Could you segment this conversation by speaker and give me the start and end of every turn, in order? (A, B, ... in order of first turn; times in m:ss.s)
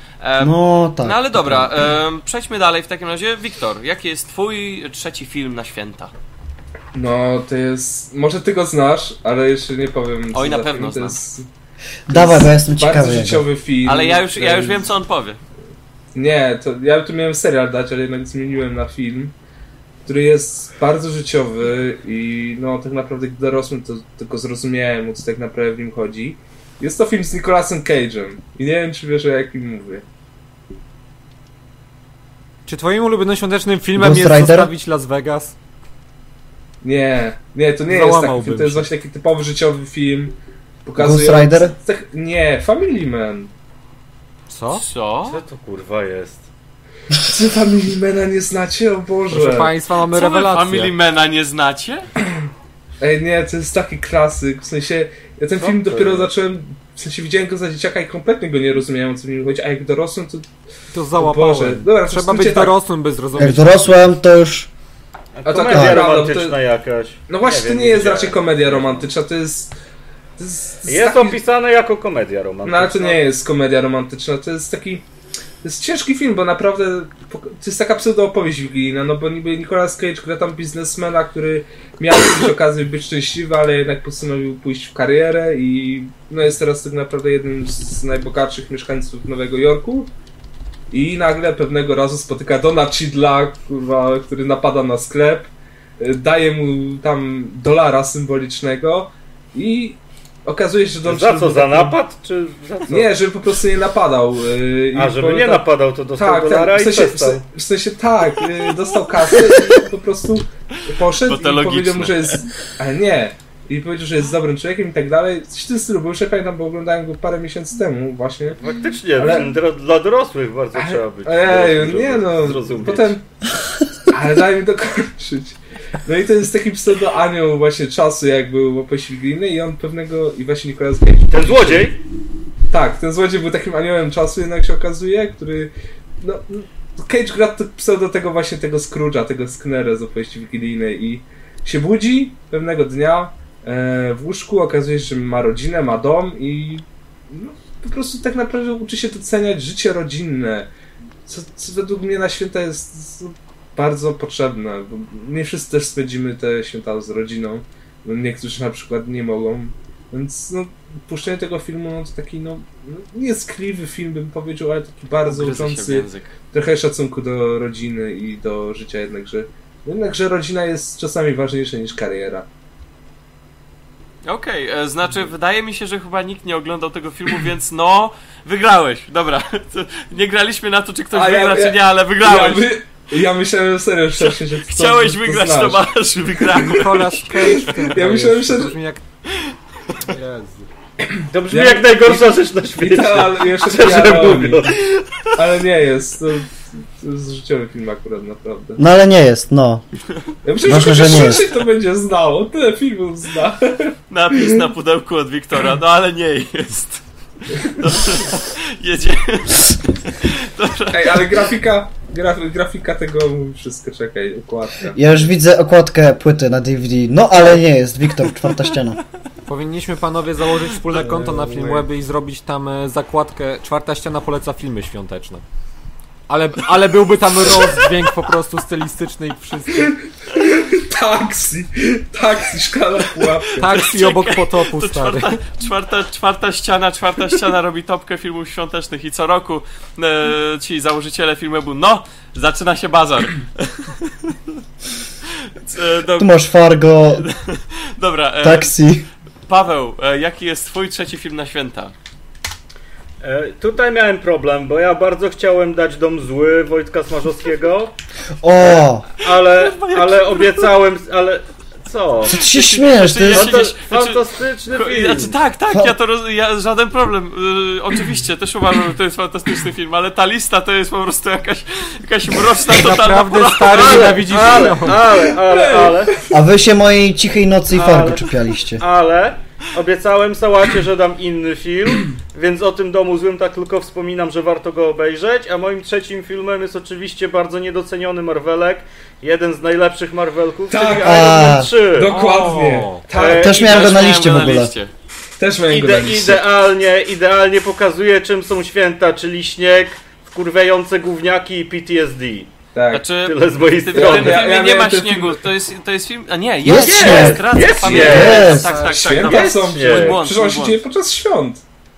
0:00.2-0:06.1 A
0:00.4-0:01.7 B
0:06.9-0:11.5 C
0:10.3-0:11.2 A
0:12.1-0:13.4 B
0:12.1-0:14.9 C
0:13.8-0:15.4 A
0:16.1-0:19.3 C
0:20.0-0:30.0 C
0:32.7-0:35.5 D
0:34.0-0:34.7 B
0:36.8-0:43.5 C
0:37.9-0:38.9 D
0:41.0-0:41.7 B
0:44.5-0:44.8 D
0:44.7-0:45.4 A
0:45.2-0:46.4 E
0:47.1-0:49.7 C
0:49.3-0:50.9 D
0:50.1-0:52.1 A
0:53.0-1:00.5 C
0:55.6-0:56.3 E
1:00.9-1:03.9 D
1:01.1-1:02.8 C
1:03.4-1:04.7 B
1:05.4-1:09.1 E
1:05.4-1:06.6 C
1:05.7-1:06.1 B
1:07.3-1:09.8 C
1:10.4-1:11.4 C
1:10.8-1:13.2 E
1:12.6-1:15.0 C
1:15.6-1:30.1 C
1:30.9-1:42.0 C
1:41.0-1:43.2 E
1:42.9-1:58.6 C
1:44.9-1:47.4 E
1:50.8-1:52.4 A
1:58.6-2:03.2 E
1:59.2-1:59.5 C
2:00.7-2:03.2 C
2:04.1-2:11.9 C
2:11.3-2:12.0 E
2:12.7-2:30.7 C
2:31.2-2:52.4 C
2:45.2-2:46.3 A
2:54.2-3:02.7 A
3:01.1-3:05.8 C
3:04.2-3:07.7 A
3:06.4-3:09.0 D
3:07.5-3:08.8 C
3:10.0-3:10.7 D
3:11.0-3:14.7 C
3:11.3-3:14.8 E
3:15.3-3:18.8 C
3:18.8-3:19.8 B
3:20.4-3:24.6 C
3:20.6-3:21.4 B
3:24.1-3:31.4 A
3:30.9-3:35.2 C
3:34.9-3:39.0 B
3:39.5-3:45.4 D
3:40.9-3:41.9 C
3:46.3-3:49.9 D
3:49.8-3:53.8 C
3:53.6-3:55.4 D
3:53.6-4:04.4 A
4:05.3-4:06.4 A
4:06.2-4:07.3 B
4:07.2-4:08.7 A
4:08.4-4:09.1 B
4:09.5-4:11.9 A
4:13.2-4:17.9 E
4:18.4-4:19.1 B
4:19.2-4:22.4 E
4:19.5-4:20.7 A
4:22.3-4:23.6 B
4:22.3-4:34.6 A
4:23.3-4:25.4 E
4:32.6-4:35.1 D
4:33.6-4:36.1 E
4:34.9-4:36.4 C
4:36.3-4:38.8 B
4:37.7-4:52.1 E
4:50.7-4:53.9 C
4:51.0-4:51.7 B
4:52.1-4:52.8 A
4:52.2-4:53.0 D
4:53.1-4:54.0 E
4:53.3-4:54.7 B
4:53.5-4:54.9 A
4:55.4-4:56.4 C
4:55.7-5:02.5 E
5:02.7-5:03.1 C
5:02.9-5:10.8 A
5:03.2-5:04.4 E
5:03.9-5:05.4 C
5:06.6-5:08.7 B
5:06.7-5:08.7 E
5:07.7-5:11.6 C
5:08.1-5:08.9 D
5:09.2-5:10.2 E